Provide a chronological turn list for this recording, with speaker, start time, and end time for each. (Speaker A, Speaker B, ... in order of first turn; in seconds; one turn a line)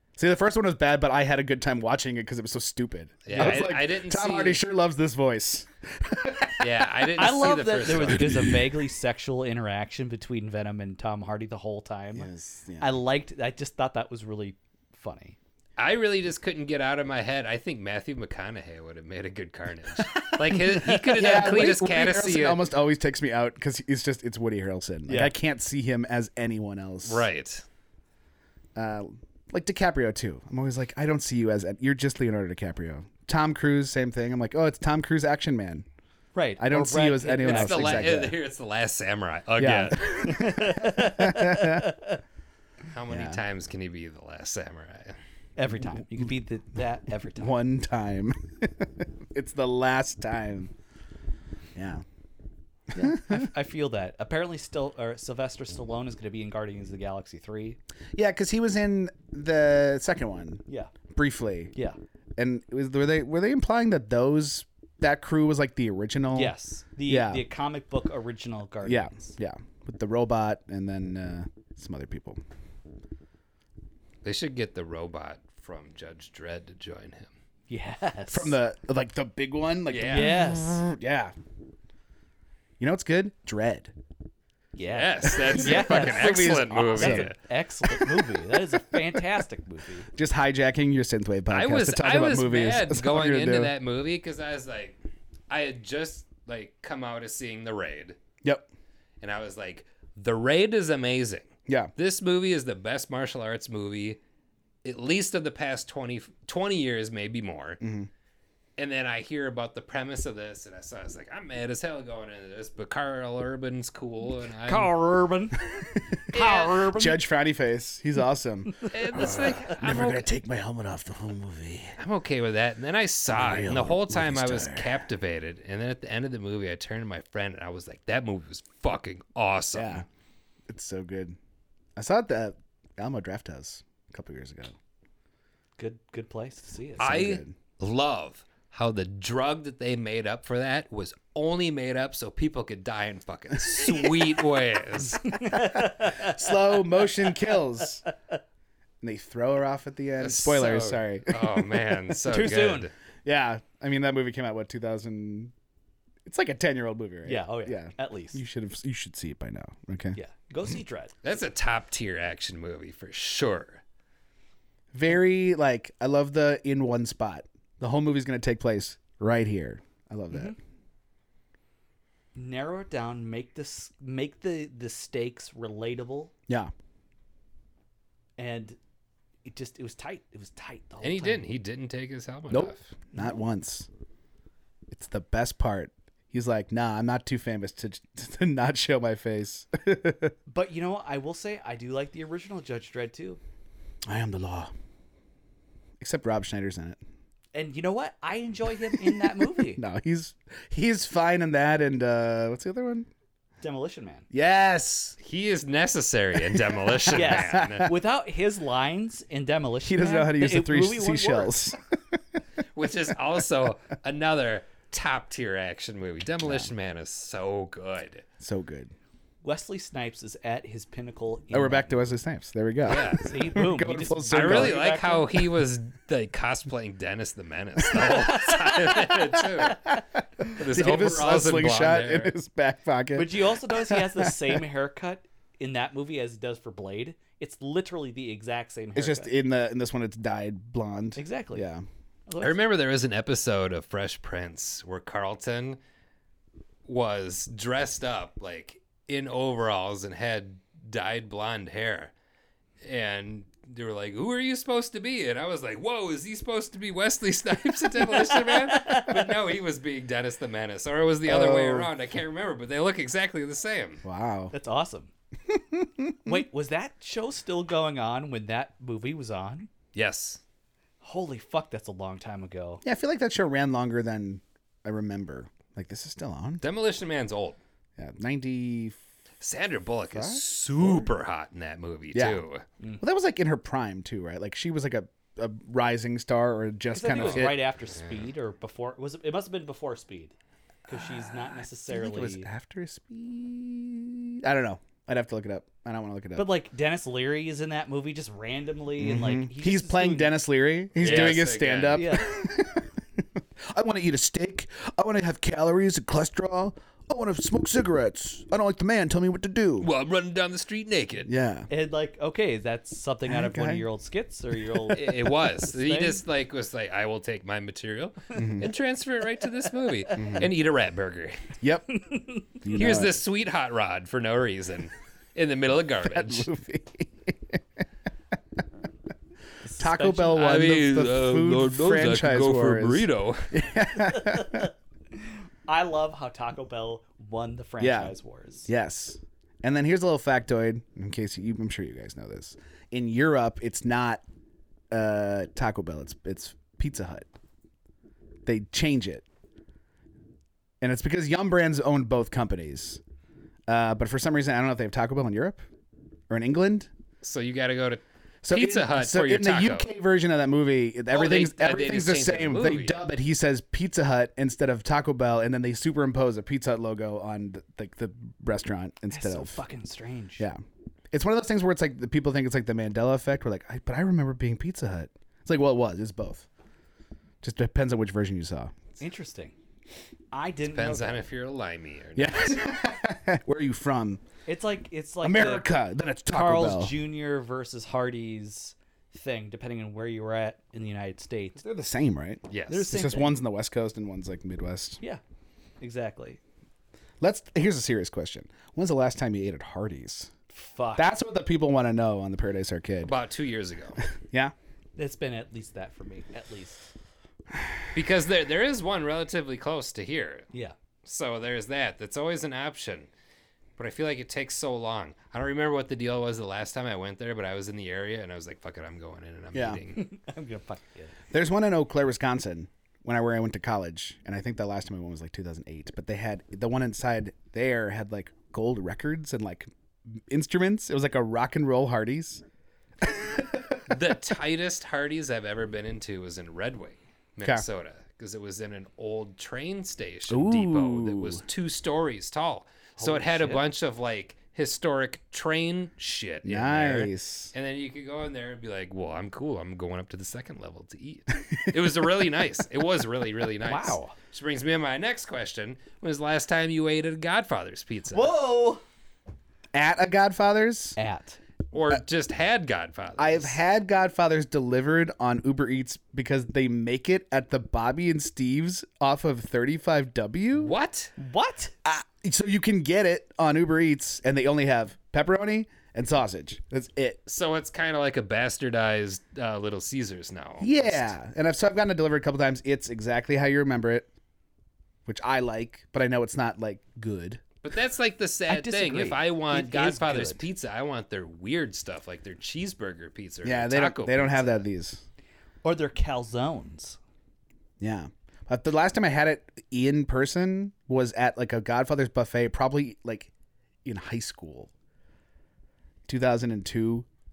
Speaker A: 0.2-7.1
Speaker B: 3.2-4.6
Speaker B: 6.6-8.6
Speaker C: 7.2-12.3
Speaker A: 12.2-13.0
Speaker C: 12.8-15.4
Speaker B: 15.8-22.6
Speaker A: 20.1-27.2
Speaker C: 25.1-25.3
Speaker B: 27.1-27.6
Speaker A: 28.8-35.9
Speaker C: 36.4-38.1
Speaker A: 36.6-38.4
Speaker B: 37.4-40.1
Speaker A: 39.6-41.9
Speaker C: 40.2-42.2
Speaker B: 42.9-45.2
Speaker A: 43.1-43.4
Speaker C: 45.6-47.5
Speaker A: 47.3-50.7
Speaker A: 51.8-52.0
Speaker A: 52.9-53.5
Speaker C: 53.0-57.8
Speaker A: 58.2-61.7
Speaker A: 62.4-66.5
Speaker C: 66.3-69.3
Speaker A: 67.1-67.5
Speaker A: 68.8-72.4
Speaker B: 74.2-77.3
Speaker C: 77.7-78.5
Speaker A: 78.3-81.3
Speaker B: 79.9-80.4
Speaker C: 80.1-80.8
Speaker A: 82.8-83.9
Speaker C: 84.8-90.1
Speaker B: 84.9-87.4
Speaker A: 85.4-87.3
Speaker A: 90.1-93.7
Speaker B: 91.5-95.0
Speaker B: 95.5-98.2
Speaker B: 99.2-104.2
Speaker B: 104.8-107.8
Speaker A: 107.8-108.1
Speaker B: 108.8-114.9
Speaker C: 114.6-115.6
Speaker B: 116.3-116.9
Speaker C: 116.3-117.2
Speaker A: 116.9-122.0
Speaker B: 118.9-120.3
Speaker B: 122.0-130.0
Speaker A: 123.3-125.0
Speaker A: 129.7-130.1
Speaker A: 130.7-131.4
Speaker A: 132.0-134.7
Speaker C: 135.8-137.1
Speaker A: 137.0-137.6
Speaker B: 137.0-145.4
Speaker C: 145.4-146.4
Speaker A: 145.8-148.0
Speaker A: 149.0-152.2
Speaker B: 150.2-152.9
Speaker C: 152.3-152.9
Speaker A: 153.2-155.5
Speaker A: 156.3-160.2
Speaker C: 157.2-158.4
Speaker C: 160.2-161.1
Speaker B: 161.2-163.8
Speaker A: 164.9-170.6
Speaker C: 170.3-170.6
Speaker C: 172.3-176.3
Speaker C: 178.4-178.8
Speaker C: 179.4-181.4
Speaker B: 181.0-182.9
Speaker A: 182.5-183.9
Speaker A: 184.9-190.3
Speaker C: 190.5-193.4
Speaker A: 194.1-194.7
Speaker A: 196.0-197.0
Speaker C: 197.5-199.8
Speaker A: 198.9-203.1
Speaker C: 203.6-204.3
Speaker A: 204.3-205.2
Speaker B: 205.2-207.9
Speaker A: 206.4-207.9
Speaker C: 207.1-211.6
Speaker A: 209.9-212.2
Speaker B: 212.8-218.3
Speaker A: 216.4-216.7
Speaker A: 218.4-218.9
Speaker C: 219.4-221.9
Speaker A: 221.5-224.8
Speaker B: 222.8-223.3
Speaker C: 223.2-225.3
Speaker B: 224.3-229.9
Speaker C: 228.0-229.7
Speaker A: 230.5-234.6
Speaker B: 230.5-232.3
Speaker C: 233.2-239.3
Speaker A: 239.0-241.8
Speaker C: 241.2-241.7
Speaker C: 242.3-242.6
Speaker B: 242.4-245.8
Speaker B: 246.9-252.1
Speaker B: 252.8-264.0
Speaker C: 258.1-259.2
Speaker A: 261.3-261.9
Speaker A: 264.0-264.5
Speaker C: 264.5-265.1
Speaker A: 265.5-266.4
Speaker C: 266.2-269.7
Speaker B: 269.9-270.4
Speaker C: 271.0-272.8
Speaker A: 272.8-276.6
Speaker B: 276.6-277.6
Speaker A: 278.0-279.0
Speaker B: 279.4-282.6
Speaker A: 280.1-281.1
Speaker A: 282.1-282.4
Speaker A: 283.0-287.6
Speaker C: 286.9-290.3
Speaker B: 287.1-288.3
Speaker C: 290.9-292.5
Speaker A: 291.9-296.5
Speaker C: 296.4-300.3
Speaker A: 299.0-309.9
Speaker B: 301.0-302.2
Speaker C: 301.0-301.4
Speaker C: 301.9-302.3
Speaker B: 309.8-311.3
Speaker A: 311.3-311.7
Speaker C: 311.7-316.2
Speaker A: 313.3-313.9
Speaker B: 314.9-321.4
Speaker A: 318.4-318.7
Speaker A: 320.2-320.5
Speaker A: 321.6-322.0
Speaker C: 322.0-322.6
Speaker A: 322.6-323.2
Speaker B: 322.7-326.5
Speaker A: 326.0-327.6
Speaker C: 329.6-330.4
Speaker A: 329.8-334.7
Speaker B: 330.3-333.6
Speaker C: 334.1-334.7
Speaker C: 335.7-338.7
Speaker A: 337.8-338.1
Speaker A: 338.7-344.2
Speaker A: 344.9-347.3
Speaker A: 348.4-349.2
Speaker A: 350.8-353.0
Speaker A: 353.7-355.6
Speaker A: 356.3-356.9
Speaker B: 357.2-359.9
Speaker A: 358.4-369.6
Speaker B: 361.1-363.0
Speaker C: 369.1-370.5
Speaker A: 370.4-376.5
Speaker A: 377.4-378.8
Speaker C: 379.0-379.6
Speaker C: 380.3-381.2
Speaker B: 380.7-382.6
Speaker A: 382.2-384.2
Speaker C: 384.5-385.7
Speaker A: 385.2-387.0
Speaker C: 386.3-391.6
Speaker A: 391.6-395.0
Speaker B: 392.5-393.0
Speaker C: 392.7-393.4
Speaker C: 395.8-396.4
Speaker A: 397.2-400.3
Speaker C: 400.5-401.1
Speaker A: 401.0-403.1
Speaker B: 403.1-404.0
Speaker A: 404.1-404.5
Speaker C: 405.0-406.9
Speaker B: 407.9-410.5
Speaker B: 411.1-413.1
Speaker B: 413.8-420.1
Speaker A: 419.5-419.8
Speaker C: 419.9-421.1
Speaker A: 421.3-432.4
Speaker A: 433.0-433.8
Speaker B: 433.9-458.3
Speaker A: 440.3-441.4
Speaker C: 443.0-443.6
Speaker A: 446.4-447.5
Speaker C: 453.6-454.2
Speaker C: 458.1-458.8
Speaker A: 459.7-461.0
Speaker C: 461.0-461.4
Speaker B: 461.7-463.6
Speaker A: 463.2-470.7
Speaker B: 470.6-471.1
Speaker C: 471.2-471.7
Speaker A: 471.9-477.2
Speaker B: 477.3-481.1
Speaker A: 480.6-484.1
Speaker A: 485.1-487.4
Speaker B: 487.6-494.7
Speaker C: 488.5-490.4
Speaker A: 493.4-495.0
Speaker C: 495.6-497.0
Speaker A: 497.8-503.3
Speaker A: 503.9-504.7
Speaker A: 506.1-507.1